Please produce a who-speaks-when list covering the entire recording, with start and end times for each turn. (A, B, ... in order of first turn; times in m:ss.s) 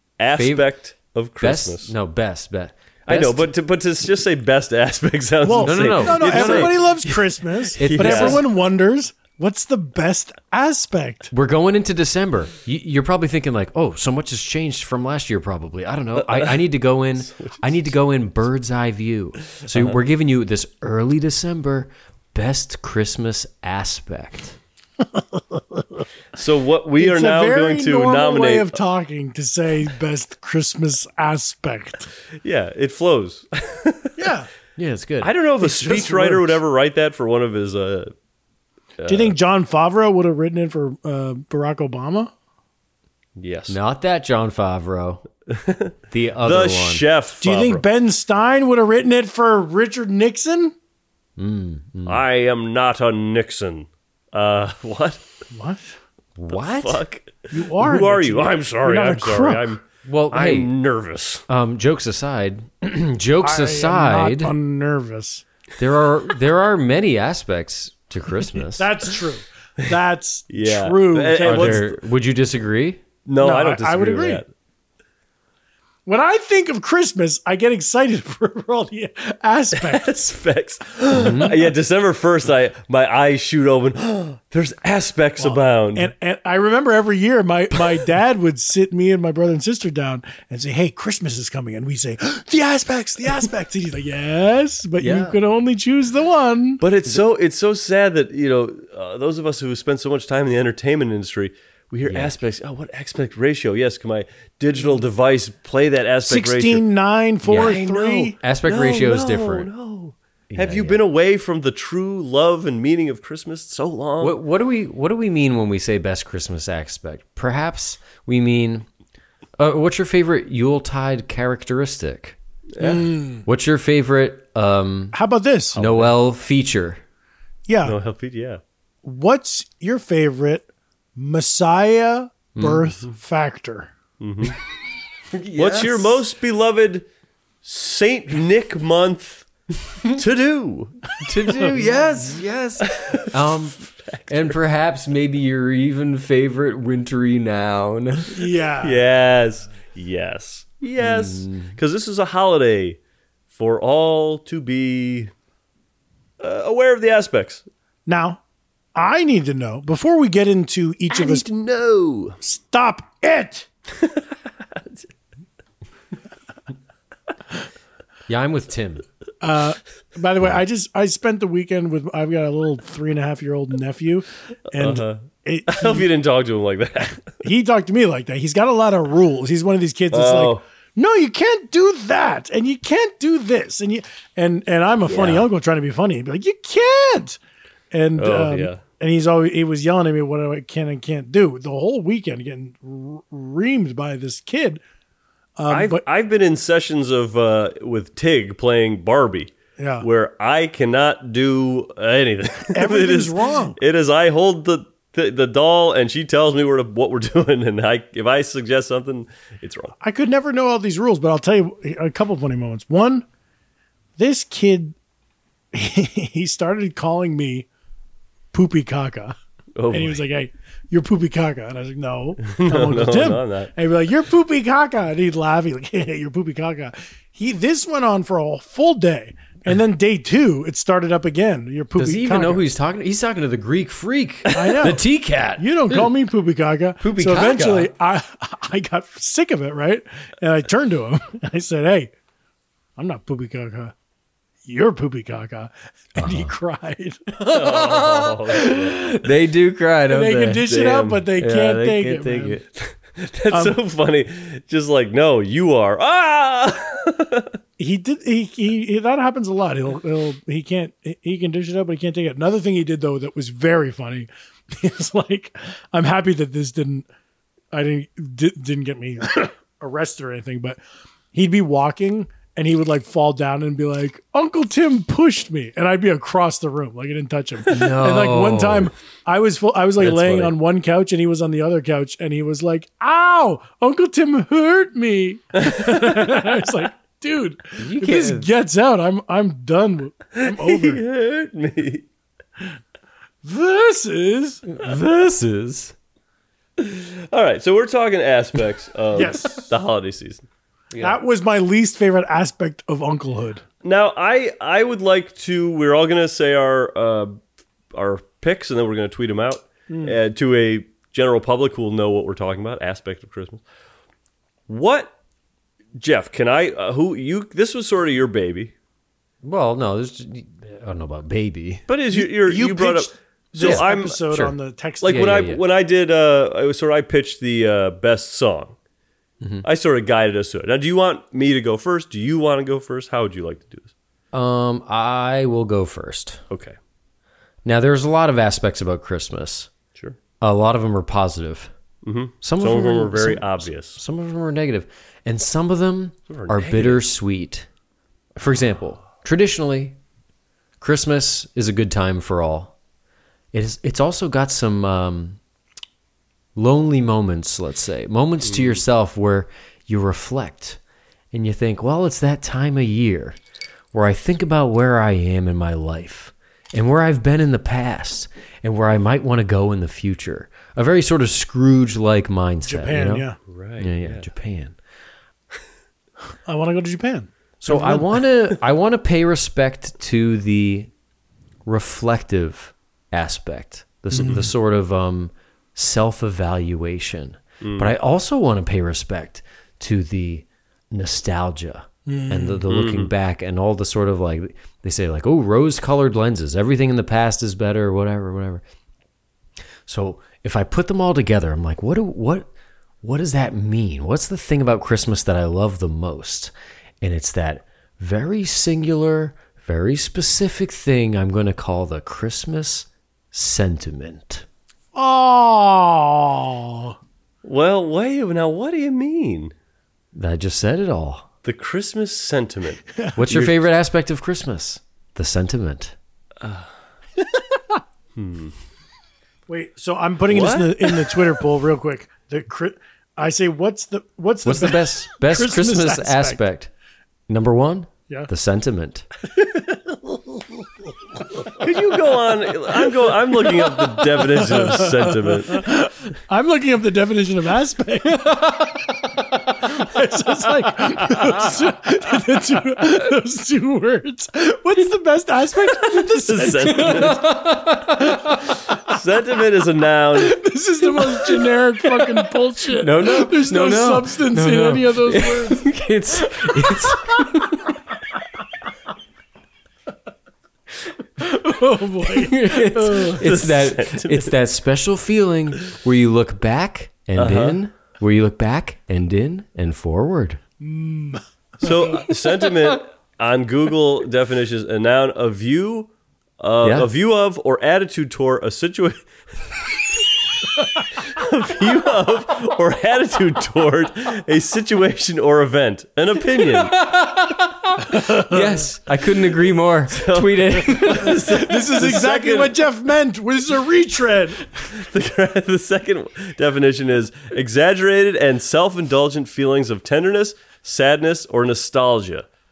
0:00.2-0:01.9 A
0:00.4-0:00.7 B
0:01.4-0:03.5 B
0:03.1-0:07.2 A
0:05.4-0:11.3 C
0:05.6-0:06.8 B
0:07.8-0:08.4 A
0:07.8-0:08.4 B
0:11.3-0:24.6 B
0:16.2-0:16.6 A
0:17.3-0:17.7 A
0:19.6-0:20.0 A
0:25.2-0:26.0 C
0:26.4-0:28.8 A
0:27.0-0:32.1 C
0:32.4-0:34.3 A
0:34.2-0:34.5 C
0:34.8-0:35.3 B
0:35.2-0:38.1 A
0:35.7-0:36.5 C
0:39.0-0:39.3 A
0:39.1-0:42.3 C
0:43.4-0:43.8 A
0:43.7-0:45.2 B
0:45.5-0:47.8 A
0:46.1-0:47.0 B
0:47.4-0:50.7 C
0:51.4-0:52.2 B
0:52.1-0:55.2 A
0:55.5-0:56.0 C
0:56.4-0:57.0 B
0:56.5-1:01.4 A
0:57.5-0:59.8 C
1:00.0-1:00.7 B
1:01.5-1:04.5 B
1:03.4-1:05.4 C
1:05.8-1:08.9 B
1:08.8-1:11.8 C
1:10.5-1:12.0 A
1:11.4-1:13.0 B
1:13.3-1:14.5 A
1:13.4-1:14.4 C
1:16.1-1:20.2 C
1:19.8-1:26.1 A
1:21.1-1:21.7 B
1:25.4-1:36.8 C
1:35.0-1:35.4 B
1:36.8-1:46.8 A
1:42.1-1:42.4 B
1:46.2-1:48.4 C
1:47.5-1:47.8 B
1:47.5-1:54.4 A
1:48.4-1:49.7 B
1:50.5-1:51.0 B
1:54.2-1:58.9 B
1:59.6-2:02.4 B
2:02.8-2:03.1 A
2:02.8-2:03.4 C
2:03.4-2:05.2 B
2:05.1-2:05.8 C
2:05.8-2:06.1 A
2:05.8-2:07.0 B
2:07.7-2:08.0 C
2:07.8-2:08.6 A
2:09.0-2:13.9 C
2:12.6-2:12.9 B
2:14.2-2:14.6 A
2:15.3-2:16.2 B
2:15.6-2:17.0 A
2:17.6-2:21.2 A
2:21.2-2:28.4 B
2:22.8-2:23.4 A
2:24.0-2:24.6 A
2:28.3-2:29.0 C
2:28.8-2:33.0 A
2:31.0-2:31.7 B
2:33.5-2:35.3 A
2:36.4-2:37.6 A
2:38.1-2:38.4 C
2:39.0-2:41.5 C
2:41.1-2:42.4 A
2:42.4-2:43.7 C
2:48.3-2:49.0 B
2:49.4-2:56.1 C
2:54.8-2:57.4 A
2:57.4-3:07.4 C
3:00.1-3:00.6 A
3:05.2-3:05.4 B
3:07.9-3:14.8 C
3:08.2-3:08.8 A
3:15.6-3:16.0 C
3:15.7-3:30.0 A
3:19.8-3:20.1 C
3:22.7-3:23.8 C
3:30.0-3:33.2 C
3:34.2-3:35.0 C
3:35.7-3:37.7 C
3:38.5-3:39.4 C
3:39.8-3:40.2 A
3:39.9-3:52.6 C
3:42.4-3:43.7 A
3:52.0-3:56.0 B
3:54.5-3:55.0 C
3:55.6-4:02.1 C
3:57.0-3:57.9 B
4:03.0-4:03.9 C
4:04.6-4:07.5 C
4:06.2-4:06.5 B
4:07.4-4:09.2 A
4:07.5-4:10.9 B
4:10.1-4:12.6 C
4:10.7-4:11.2 A
4:11.4-4:12.6 B
4:12.8-4:17.5 A
4:13.5-4:13.8 C
4:17.8-4:27.1 C
4:27.7-4:30.8 C
4:31.3-4:51.0 C
4:37.7-4:38.9 B
4:40.0-4:40.5 A
4:45.6-4:46.2 A
4:47.8-4:48.5 B
4:50.4-4:52.0 A
4:53.4-4:54.6 C
4:54.7-4:55.9 B
4:56.8-5:00.4 A
4:59.2-4:59.7 C
5:00.9-5:01.2 B
5:01.0-5:03.6 C
5:03.8-5:07.4 A
5:07.9-5:13.6 A
5:09.9-5:10.2 C
5:14.7-5:15.1 A
5:16.0-5:18.7 A
5:19.4-5:21.9 B
5:21.9-5:24.2 A
5:22.1-5:25.4 C
5:23.6-5:24.5 B
5:25.0-5:28.8 A
5:25.1-5:25.6 B
5:29.6-5:33.9 A
5:34.3-5:36.4 B
5:36.5-5:36.8 A
5:37.6-5:39.7 B
5:40.4-5:41.7 B
5:42.0-5:44.0 A
5:42.4-5:47.7 B
5:46.3-5:47.0 A
5:48.4-5:50.0 B
5:50.8-5:52.7 B
5:53.5-5:55.4 B
5:56.6-6:00.8 B
5:58.5-5:58.8 A
6:01.3-6:03.4 B
6:03.9-6:13.3 B
6:12.6-6:13.4 C
6:13.5-6:14.3 A
6:13.8-6:14.8 B
6:16.5-6:18.0 C
6:17.6-6:20.9 B
6:21.7-6:38.6 B
6:24.1-6:24.5 C
6:27.6-6:27.9 A
6:32.1-6:32.6 C
6:32.7-6:33.1 A
6:39.9-6:42.5 B
6:43.0-6:54.4 B
6:55.0-6:57.0 C
6:57.4-6:59.5 A
7:00.1-7:01.3 B
7:01.4-7:03.6 A
7:02.9-7:03.2 C
7:03.2-7:06.0 B
7:06.4-7:06.7 A
7:07.3-7:07.8 C
7:08.2-7:08.5 A
7:09.5-7:16.4 C
7:10.3-7:11.3 A
7:14.4-7:16.7 B
7:17.3-7:19.1 B
7:19.4-7:20.6 C
7:21.6-7:25.7 A
7:22.8-7:23.1 C
7:23.6-7:28.4 C
7:28.1-7:29.3 B
7:29.5-7:37.2 C
7:36.0-7:37.3 A
7:36.7-7:38.6 B
7:38.8-7:40.4 A
7:40.2-7:45.7 C
7:41.0-7:47.7 B
7:46.4-7:47.5 C
7:51.2-7:53.2 C
7:52.0-8:00.4 B
7:53.1-7:54.3 A
7:57.2-7:57.6 A
8:00.6-8:02.0 C
8:01.6-8:09.0 A
8:06.6-8:06.9 B
8:11.0-8:16.8 A
8:16.4-8:21.4 B
8:17.9-8:18.5 C
8:19.9-8:22.6 A
8:21.1-8:24.4 C
8:24.5-8:32.3 A